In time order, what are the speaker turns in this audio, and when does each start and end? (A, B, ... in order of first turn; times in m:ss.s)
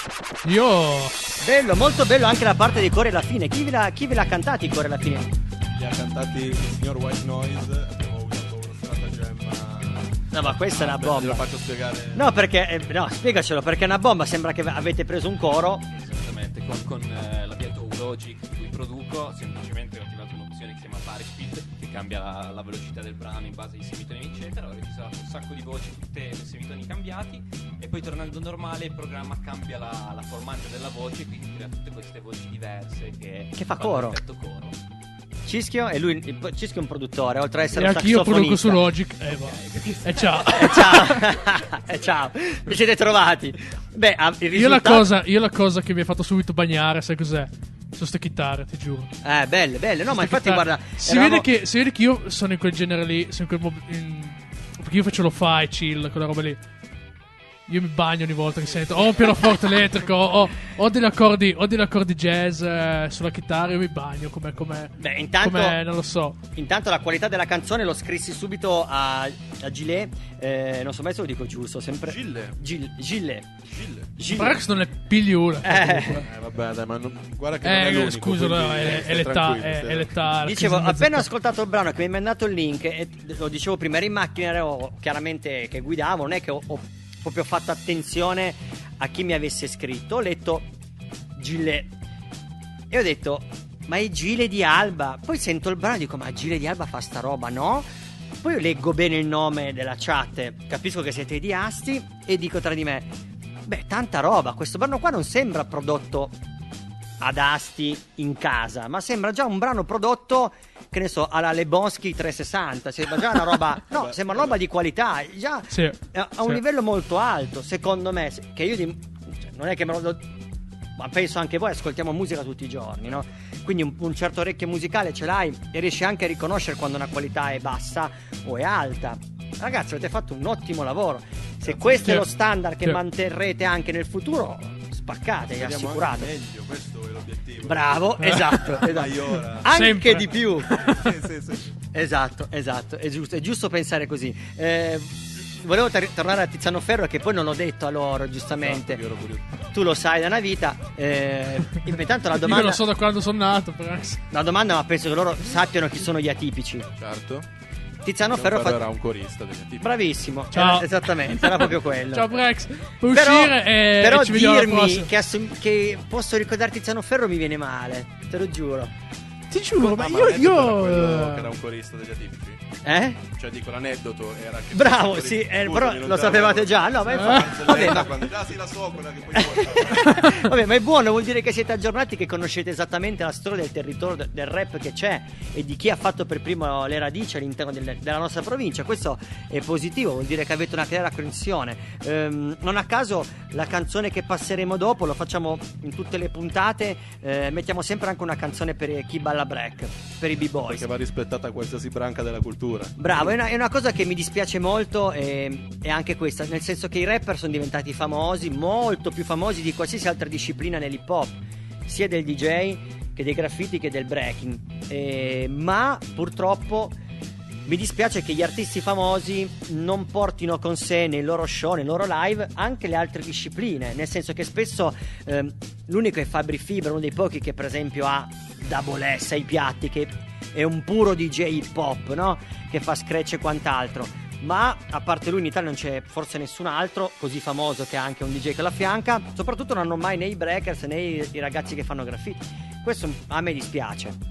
0:00.4-0:01.2 A
0:01.4-0:05.3 B
0:05.8-0:12.5 C
0:10.3-0:11.5 B
0:12.1-0:15.8 B
0:15.9-0:34.8 D
0:33.6-0:34.2 B
0:35.5-0:38.8 B
0:37.8-0:41.2 A
0:39.3-0:40.7 D
0:40.5-0:45.1 B
0:44.5-0:49.1 A
0:49.2-0:51.4 B
0:50.1-0:56.6 A
0:57.7-1:06.4 A
1:05.0-1:05.8 B
1:06.6-1:13.5 B
1:12.0-1:12.6 C
1:13.6-1:14.1 C
1:14.2-1:14.6 B
1:14.3-1:16.3 A
1:15.6-1:16.2 B
1:16.2-1:20.2 C
1:17.6-1:21.3 A
1:20.4-1:30.7 B
1:31.4-1:31.9 B
1:32.9-1:37.9 B
1:38.4-1:43.1 B
1:43.7-1:46.4 B
1:47.2-2:00.2 B
1:53.9-1:54.6 C
1:55.7-1:56.6 A
2:01.0-2:16.3 B
2:11.6-2:12.2 C
2:12.0-2:12.3 A
2:15.4-2:19.8 C
2:17.6-2:20.8 B
2:18.2-2:18.8 A
2:19.6-2:20.4 A
2:20.7-2:21.7 C
2:21.9-2:29.0 B
2:28.5-2:29.5 C
2:29.7-2:32.8 B
2:32.4-2:34.2 A
2:34.3-2:36.9 B
2:37.0-2:37.5 C
2:38.0-2:38.8 B
2:38.3-2:39.9 C
2:39.8-2:42.4 B
2:40.5-2:45.1 A
2:43.1-2:48.9 B
2:49.5-2:51.6 A
2:49.7-2:52.6 C
2:52.8-2:53.2 B
2:53.3-3:00.2 C
2:54.7-2:58.1 B
2:57.1-2:57.9 A
2:59.5-3:20.9 B
3:20.3-3:23.4 C
3:23.0-3:37.0 B
3:37.7-4:04.2 B